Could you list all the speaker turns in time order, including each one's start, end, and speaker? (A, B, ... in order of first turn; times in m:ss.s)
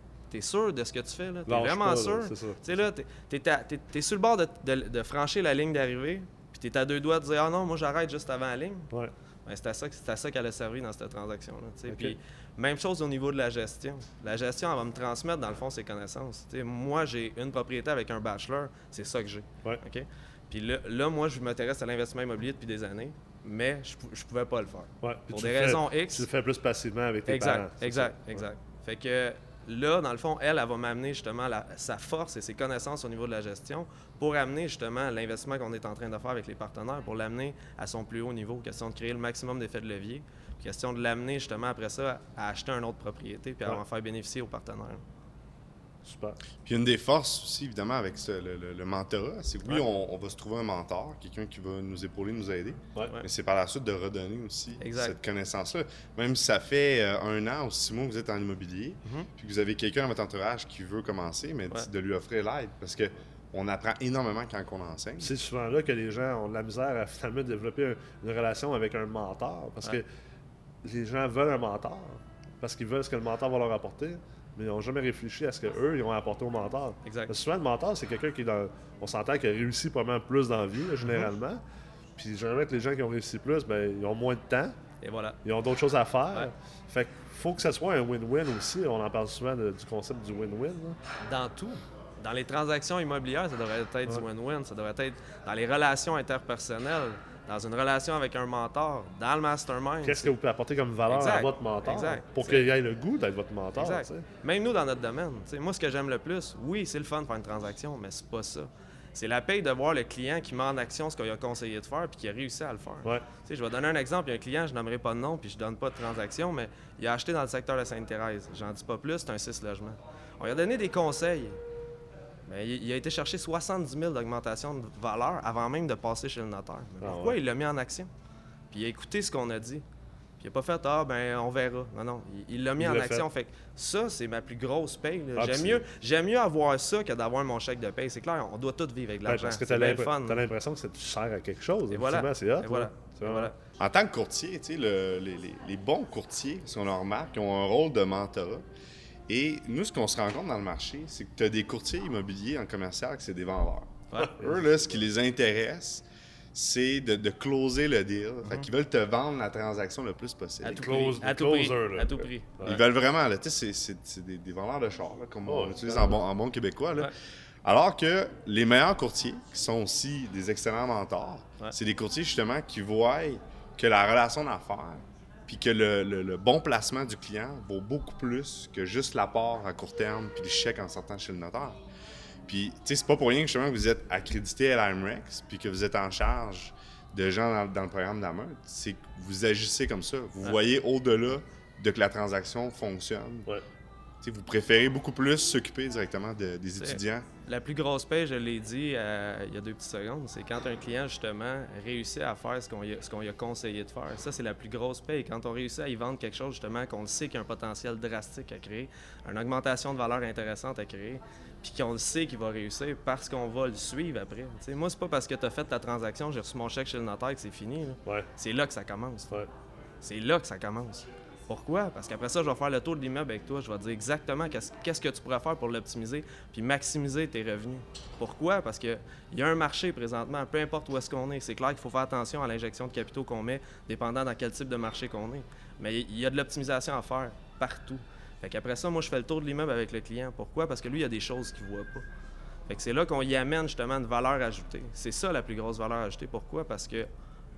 0:00.3-0:08.9 A
0:01.5-0:02.6 B
0:09.5-0:26.3 A
0:25.0-0:28.4 B
0:27.3-0:45.0 A
0:46.0-0:46.4 B
0:46.6-1:05.3 C
0:54.8-0:55.2 A
0:59.0-0:59.3 A
1:05.2-1:10.0 B
1:10.8-1:21.6 B
1:17.0-1:17.3 A
1:21.0-1:21.3 A
1:22.2-1:24.8 B
1:25.0-1:25.4 A
1:25.4-1:31.0 B
1:31.2-1:40.3 A
1:40.0-1:44.2 B
1:41.1-1:42.7 A
1:43.8-2:01.6 A
2:02.5-2:08.1 A
2:07.0-2:07.4 B
2:08.7-2:09.8 A
2:10.4-2:20.4 A
2:12.8-2:13.2 B
2:15.4-2:15.8 B
2:19.2-2:23.5 B
2:21.9-2:23.6 A
2:23.8-2:28.6 C
2:29.3-2:40.9 C
2:34.2-2:34.7 B
2:40.6-2:42.8 A
2:40.7-2:42.8 B
2:42.6-2:47.1 C
2:45.5-2:46.2 B
2:47.6-3:01.8 C
3:02.5-3:13.5 C
3:14.2-3:17.3 C
3:16.8-3:39.4 A
3:40.0-4:02.0 A
4:02.7-4:07.1 A